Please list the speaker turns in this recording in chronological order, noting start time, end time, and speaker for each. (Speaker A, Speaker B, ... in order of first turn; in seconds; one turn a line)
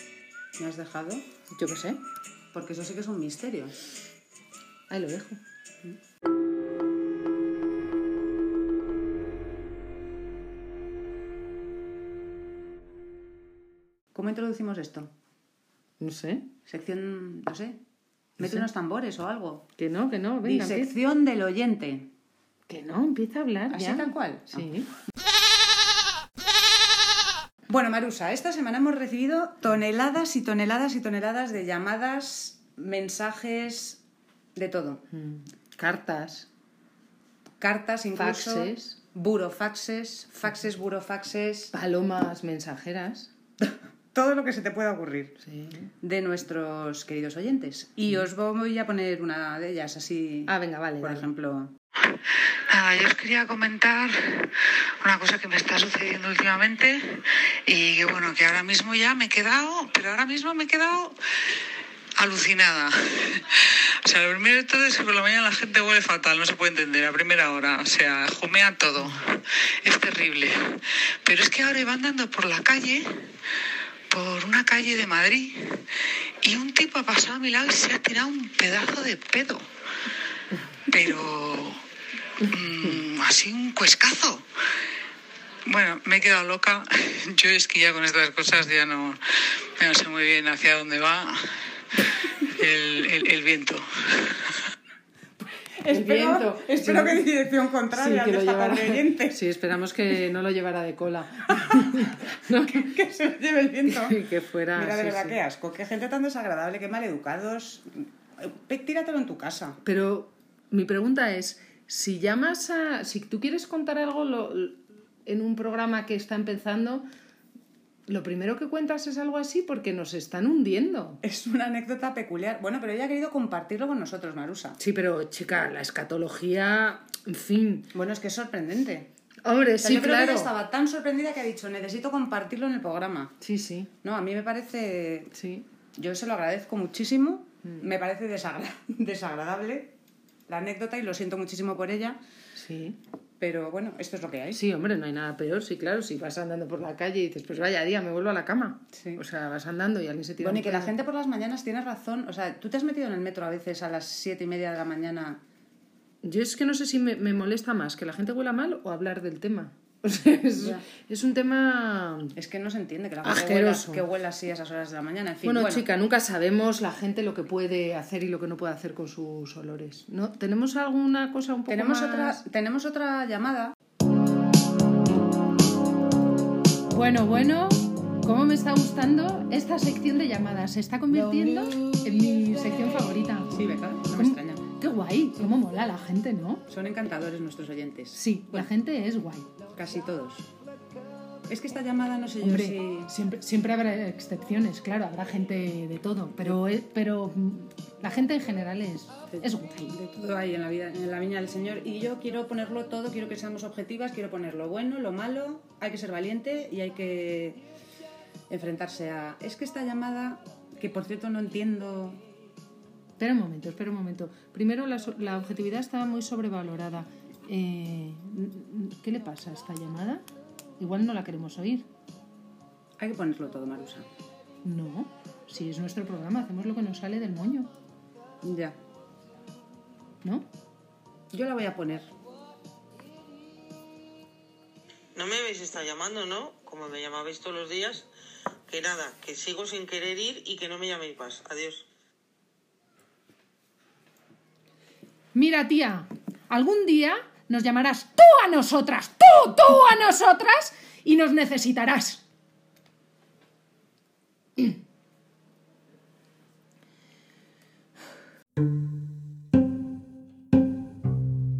Speaker A: 0.6-1.2
Speaker B: 1.5-2.0
Speaker A: 2.5-3.8
Speaker B: 4.9-5.4
Speaker A: 14.1-15.1
Speaker B: 16.0-16.5
Speaker A: 16.6-17.8
Speaker B: 18.4-18.7
Speaker A: 18.4-19.7
Speaker B: 19.8-20.9
Speaker A: 20.4-22.1
Speaker B: 22.7-24.9
Speaker A: 23.7-24.7
Speaker A: 27.7-34.0
Speaker A: 34.5-35.0
Speaker B: 35.1-36.5
Speaker A: 37.6-41.7
Speaker B: 38.2-39.0
Speaker B: 41.7-43.3
Speaker A: 43.6-45.4
Speaker B: 45.4-45.9
Speaker A: 46.0-51.7
Speaker B: 50.5-51.3
Speaker C: 52.7-61.1
Speaker C: 62.2-73.4
Speaker C: 74.1-79.7
Speaker B: 80.5-80.8
Speaker C: 80.9-81.8
Speaker C: 82.4-84.5
Speaker C: 85.7-94.6
Speaker A: 95.8-99.4
Speaker B: 95.9-97.2
Speaker B: 97.9-102.9
Speaker A: 101.5-109.8
Speaker B: 103.8-105.4
Speaker B: 109.8-117.0
Speaker B: 118.1-121.2
Speaker A: 121.2-124.8
Speaker B: 124.8-127.9
Speaker A: 127.9-129.1
Speaker B: 129.4-130.5
Speaker A: 129.8-133.3
Speaker B: 133.4-133.9
Speaker A: 134.0-135.3
Speaker B: 135.3-135.7
Speaker A: 135.9-139.9
Speaker A: 140.5-142.2
Speaker B: 142.5-143.0
Speaker A: 143.4-144.6
Speaker B: 144.5-150.9
Speaker A: 148.9-149.2
Speaker A: 150.4-155.4
Speaker B: 156.2-162.3
Speaker A: 160.6-160.8
Speaker A: 162.3-165.8
Speaker B: 163.2-164.0
Speaker B: 165.4-172.4
Speaker A: 171.7-173.7
Speaker B: 176.9-186.7
Speaker A: 183.5-184.7
Speaker A: 186.7-188.7
Speaker B: 188.1-189.5
Speaker A: 189.7-190.5
Speaker A: 191.5-193.1
Speaker B: 192.4-200.0
Speaker A: 199.3-207.6
Speaker A: 208.5-212.2
Speaker B: 213.2-220.2
Speaker B: 220.8-221.9
Speaker A: 223.0-224.1
Speaker B: 224.6-227.7
Speaker A: 228.4-228.8
Speaker A: 231.3-232.1
Speaker D: 235.1-238.1
Speaker D: 238.7-241.8
Speaker B: 245.3-252.2